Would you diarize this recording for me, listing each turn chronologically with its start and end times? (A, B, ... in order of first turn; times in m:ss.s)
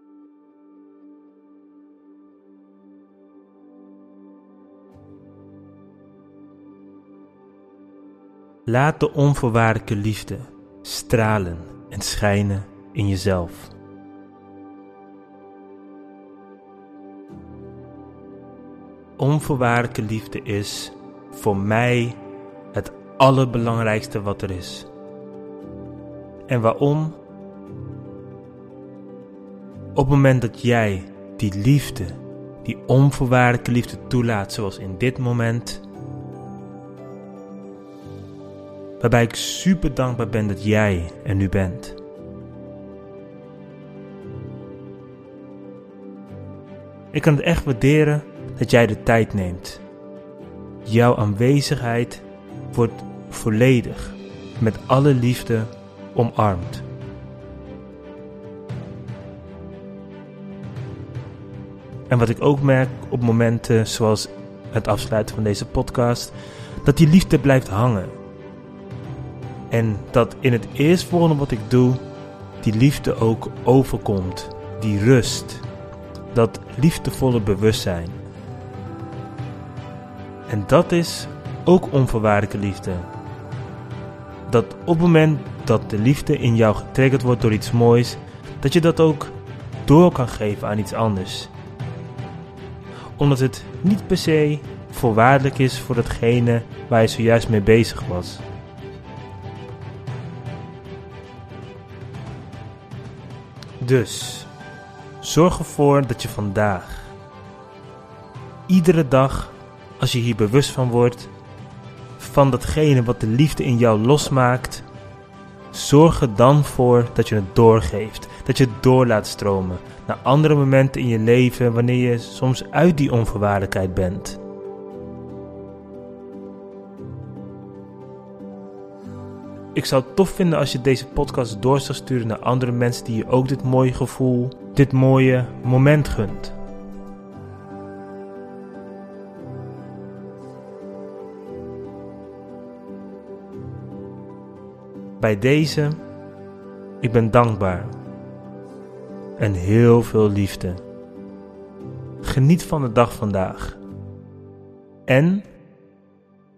0:08.6-0:13.7 A
0:19.2-0:22.2 A
0:22.7-0:24.9 A
0:26.5-0:27.2 A
0:29.9-0:35.8 A
0:39.0-0:42.0 A
0:47.1-0:49.8 A
0:50.8-0:56.8 A
1:02.1-1:08.2 A
1:09.7-1:12.0 A
1:12.6-1:15.6 A
1:16.3-1:18.2 A
1:20.5-1:23.1 A
1:24.5-1:31.5 A
1:33.2-1:38.4 A
1:43.8-1:44.5 A
1:45.2-1:47.1 A
1:48.7-1:51.3 A
1:52.2-1:54.8 A
1:55.7-2:04.4 A
2:09.7-2:16.5 A
2:25.2-2:26.0 A
2:27.0-2:28.0 A
2:29.4-2:30.8 A
2:32.2-2:33.8 A
2:35.1-2:35.5 A